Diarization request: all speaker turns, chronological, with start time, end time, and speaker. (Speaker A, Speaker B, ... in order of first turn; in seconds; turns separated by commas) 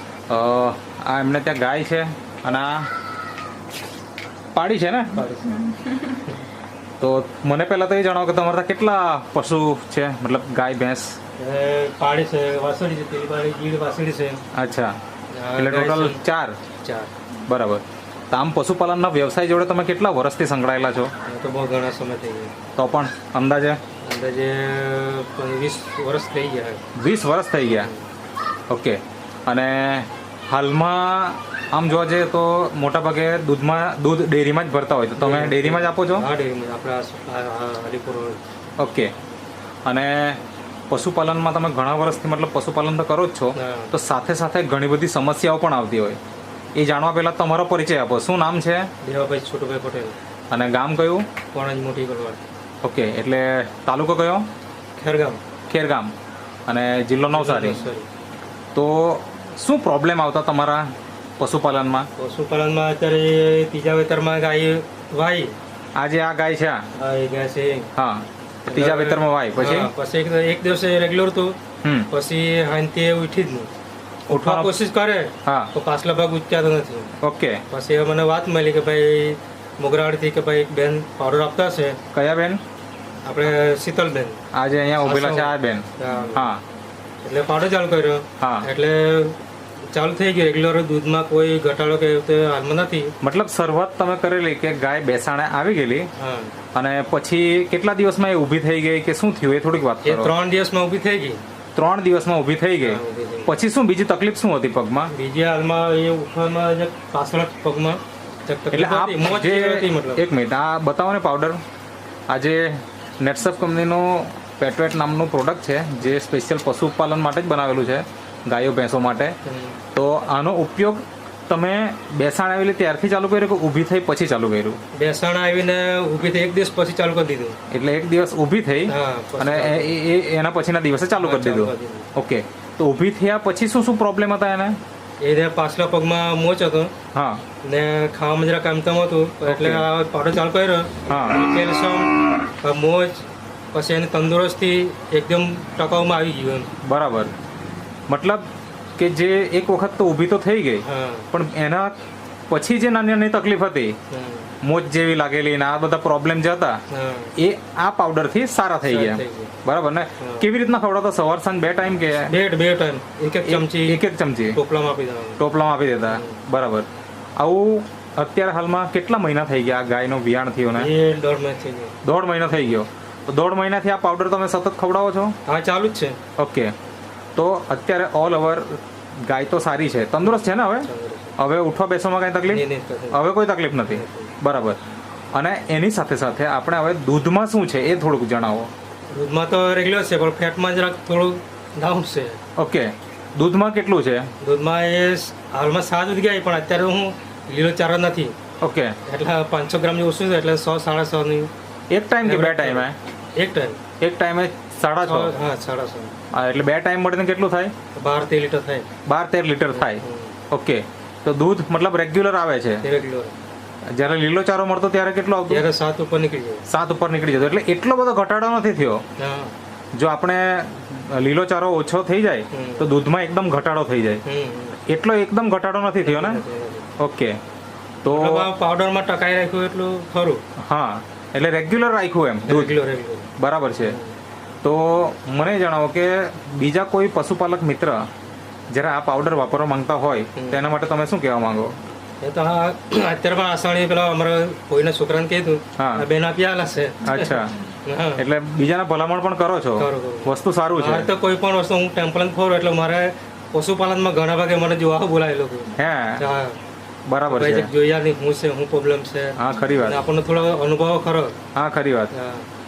Speaker A: 0.3-2.9, Speaker A: 4.5-5.2, Speaker B: 5.1-6.4, Speaker A: 7.0-11.2, Speaker B: 11.4-14.4, Speaker A: 14.5-14.9, Speaker B: 15.3-16.2, Speaker A: 15.6-16.6, Speaker B: 16.8-17.1, Speaker A: 17.5-21.1, Speaker B: 21.2-22.5, Speaker A: 22.8-23.8, Speaker B: 24.0-26.8, Speaker A: 27.0-27.9, Speaker B: 27.7-28.1, Speaker A: 28.7-36.2, Speaker B: 35.1-38.4, Speaker A: 38.8-39.1, Speaker A: 39.9-46.2, Speaker B: 43.5-43.9, Speaker A: 46.8-48.9, Speaker B: 49.0-50.1, Speaker A: 50.5-51.3, Speaker B: 51.5-52.4, Speaker A: 52.8-54.5, Speaker B: 55.0-55.4, Speaker A: 55.7-56.1, Speaker A: 56.7-57.8, Speaker B: 57.3-58.1, Speaker A: 58.7-60.9, Speaker A: 61.4-62.1, Speaker B: 62.2-65.5, Speaker A: 66.0-66.8, Speaker B: 66.9-67.9, Speaker A: 68.0-69.9, Speaker B: 68.7-71.6, Speaker B: 72.1-73.7, Speaker A: 74.3-74.7, Speaker B: 74.4-77.1, Speaker A: 75.4-75.7, Speaker A: 77.2-77.6, Speaker B: 77.7-82.0, Speaker A: 82.1-82.6, Speaker B: 83.2-84.4, Speaker A: 84.5-86.6, Speaker B: 85.0-86.5, Speaker B: 87.2-89.4, Speaker A: 88.4-88.7, Speaker B: 89.9-93.1, Speaker A: 93.2-96.1, Speaker B: 96.2-96.5, Speaker A: 96.7-100.3, Speaker B: 100.0-101.4, Speaker A: 101.7-105.1, Speaker B: 102.8-103.5, Speaker B: 105.1-110.2, Speaker A: 108.7-111.6, Speaker A: 112.3-119.3, Speaker B: 119.4-119.8, Speaker A: 119.9-124.8, Speaker B: 124.9-127.5, Speaker A: 127.7-134.8, Speaker B: 128.9-129.9, Speaker B: 131.2-132.1, Speaker B: 135.2-136.9, Speaker A: 137.1-137.4, Speaker B: 137.6-146.7, Speaker A: 139.4-139.9, Speaker A: 141.1-141.4, Speaker A: 146.8-147.3, Speaker A: 148.1-148.5, Speaker A: 149.0-151.9, Speaker B: 150.8-151.3, Speaker A: 152.5-154.0, Speaker B: 154.1-154.5, Speaker A: 154.6-156.8, Speaker B: 156.9-157.3, Speaker A: 157.4-162.3, Speaker B: 158.8-159.5, Speaker B: 160.2-160.5, Speaker B: 162.2-165.4, Speaker A: 163.4-164.6, Speaker A: 165.4-166.9, Speaker B: 166.1-166.4, Speaker A: 167.4-170.9, Speaker B: 170.7-171.9, Speaker A: 172.0-175.3, Speaker B: 175.4-176.2, Speaker A: 176.4-176.7, Speaker A: 177.3-184.8, Speaker B: 180.2-181.3, Speaker B: 182.5-183.2, Speaker B: 183.8-184.3, Speaker A: 185.3-188.7, Speaker B: 189.1-192.4, Speaker A: 192.6-194.3, Speaker B: 194.4-198.3, Speaker A: 198.6-199.0, Speaker B: 199.1-201.5, Speaker A: 201.9-202.9, Speaker B: 202.2-203.8, Speaker A: 204.0-205.3, Speaker B: 205.0-206.1, Speaker A: 206.3-207.7, Speaker B: 207.9-208.9, Speaker A: 209.1-212.8, Speaker B: 209.7-210.3, Speaker B: 212.8-213.3, Speaker A: 213.9-215.6, Speaker B: 215.5-216.6, Speaker A: 216.7-219.0, Speaker B: 219.2-219.5, Speaker A: 219.9-224.2, Speaker B: 222.5-222.9, Speaker B: 224.2-224.8, Speaker A: 224.9-226.4, Speaker B: 226.0-226.9, Speaker A: 227.0-227.3, Speaker A: 228.0-228.5, Speaker B: 228.1-230.4, Speaker A: 230.6-232.7, Speaker B: 232.4-233.3, Speaker A: 233.4-234.0, Speaker B: 233.8-234.2, Speaker A: 234.6-238.0, Speaker A: 238.7-241.7, Speaker B: 240.3-240.6, Speaker B: 242.2-248.2, Speaker A: 245.8-246.0, Speaker A: 247.0-247.5, Speaker A: 248.2-251.1, Speaker B: 249.8-256.6, Speaker A: 255.8-256.2, Speaker A: 257.1-257.7, Speaker B: 257.2-261.4, Speaker A: 259.4-260.0, Speaker A: 261.5-262.1, Speaker B: 262.1-262.4